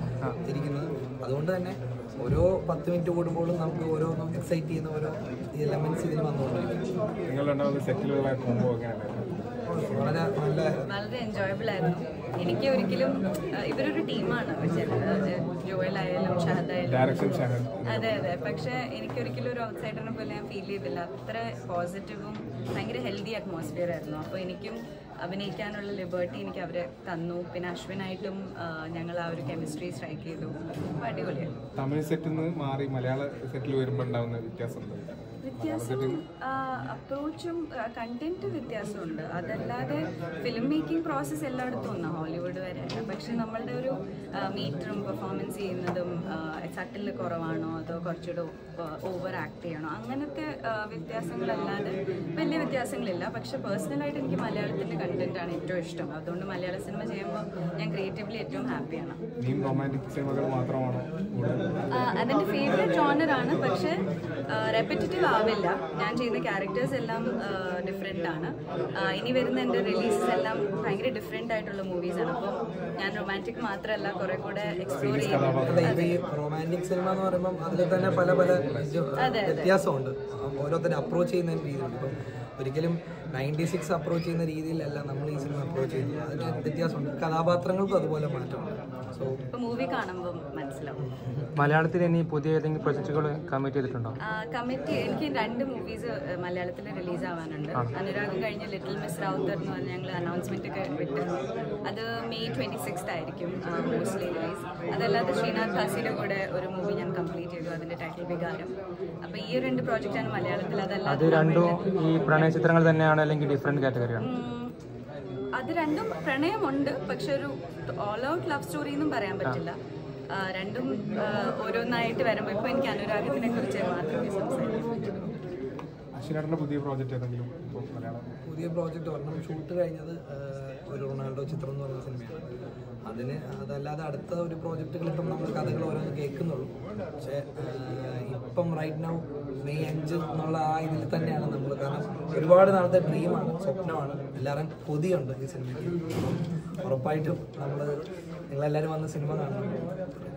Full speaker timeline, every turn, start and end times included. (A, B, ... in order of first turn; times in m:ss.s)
0:00.4-0:06.8 A
0:07.3-0:09.4 B
0:09.7-0:10.7 A
0:10.9-0:17.1 C
0:16.8-0:18.2 B
0:17.8-0:31.5 C
0:31.7-0:36.2 B
0:35.4-0:59.2 C
0:59.4-1:01.8 B
1:01.9-1:16.2 C
1:15.0-1:16.0 B
1:15.6-1:29.4 A
1:17.9-1:18.9 B
1:19.2-1:19.8 C
1:29.5-1:31.0 C
1:31.2-1:31.4 A
1:31.6-1:34.1 D
1:34.2-1:52.6 C
1:51.1-1:54.3 D
1:54.2-1:54.7 C
1:55.6-1:59.8 C
2:00.3-2:05.3 C
2:06.2-2:08.3 B
2:08.4-2:12.4 A
2:13.1-2:28.0 A
2:28.5-2:29.8 A